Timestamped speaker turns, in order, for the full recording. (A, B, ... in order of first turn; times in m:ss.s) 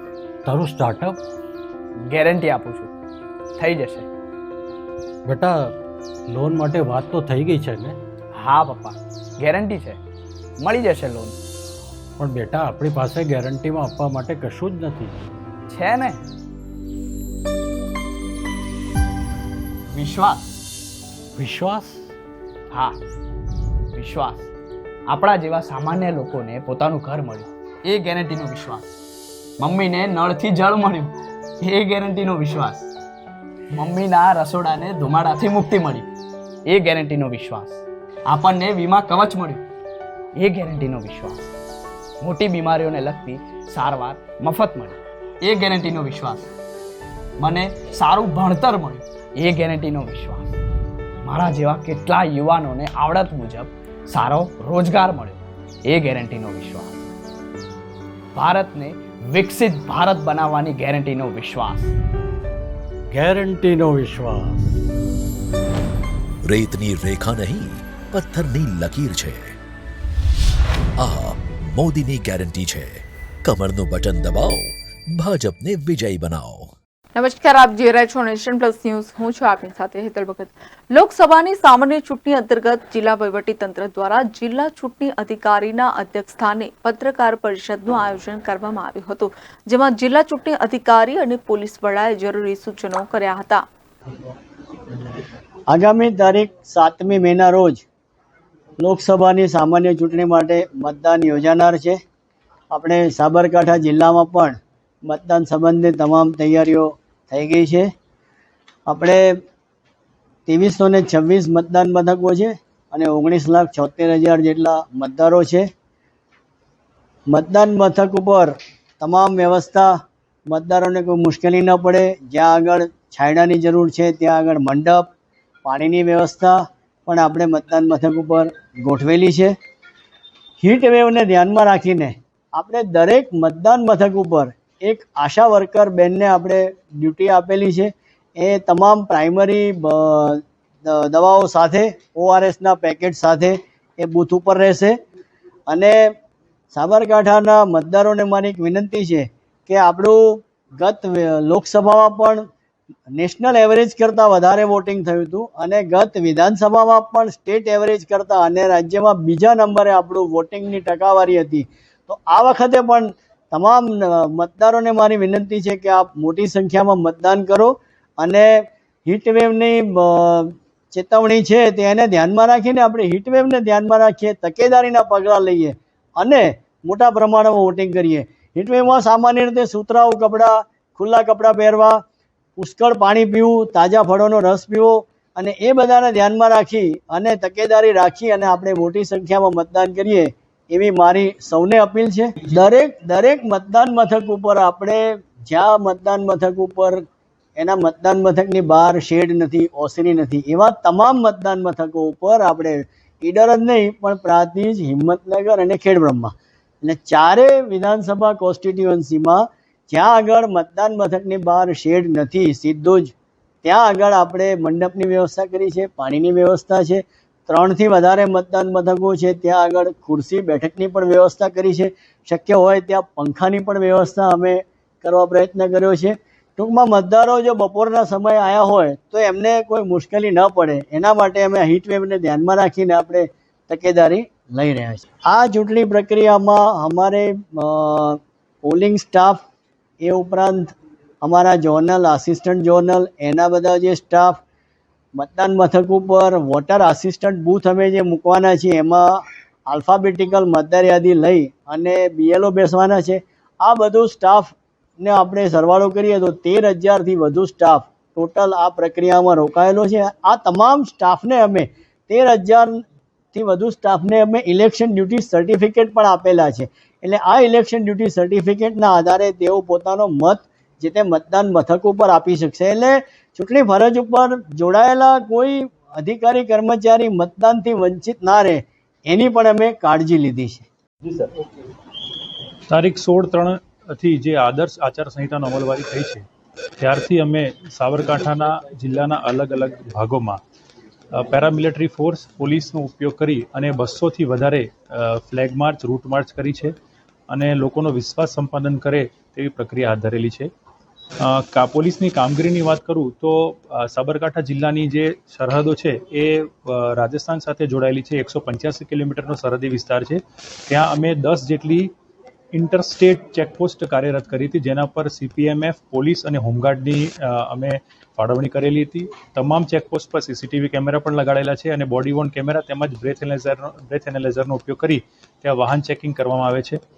0:00.4-0:01.2 A
0:02.1-0:02.9 B
0:03.6-0:04.1 B
0:05.2-0:05.7 A
0:06.3-0:08.0 A
0:08.3-0:10.0 B
0:10.6-0:11.4 B
0:12.2-0:15.2 A
0:15.7-0:16.2 B
0:19.9-0:20.5 B
0:21.4-0:22.1 A
0:22.7-0:23.0 B
0:23.9-0:24.5 B
0:25.1-0:28.9 B
0:29.6-0:32.9 B
0:33.7-0:36.1 B
0:36.7-0:39.7 B
0:40.4-0:41.5 B
0:42.2-0:46.5 B
0:47.4-0:50.6 B
0:51.2-0:57.0 B
0:58.4-1:02.0 B
1:03.1-1:04.7 A
1:06.4-1:09.5 C
1:11.0-1:16.7 C
1:17.1-1:33.6 D
1:35.7-1:37.8 E
1:38.8-1:42.0 E
1:42.7-1:47.9 E
1:48.9-1:49.3 E
1:50.5-1:55.7 E
1:57.3-1:59.9 E
2:00.5-2:05.1 E
2:05.6-2:09.5 E
2:10.6-2:25.0 E
2:25.7-2:26.0 E
2:26.7-2:30.2 E
2:30.8-2:32.4 E
2:33.1-3:02.0 E
3:02.6-3:17.0 E
3:17.6-3:26.3 E
3:26.8-3:33.1 E
3:33.6-3:59.4 E
4:00.0-4:04.4 E
4:05.2-4:22.8 E
4:23.3-4:40.6 E
4:42.7-4:46.2 F
4:46.8-4:50.4 F
4:51.1-4:56.7 F
4:57.3-5:00.5 F
5:01.2-5:11.9 F
5:12.5-5:26.8 F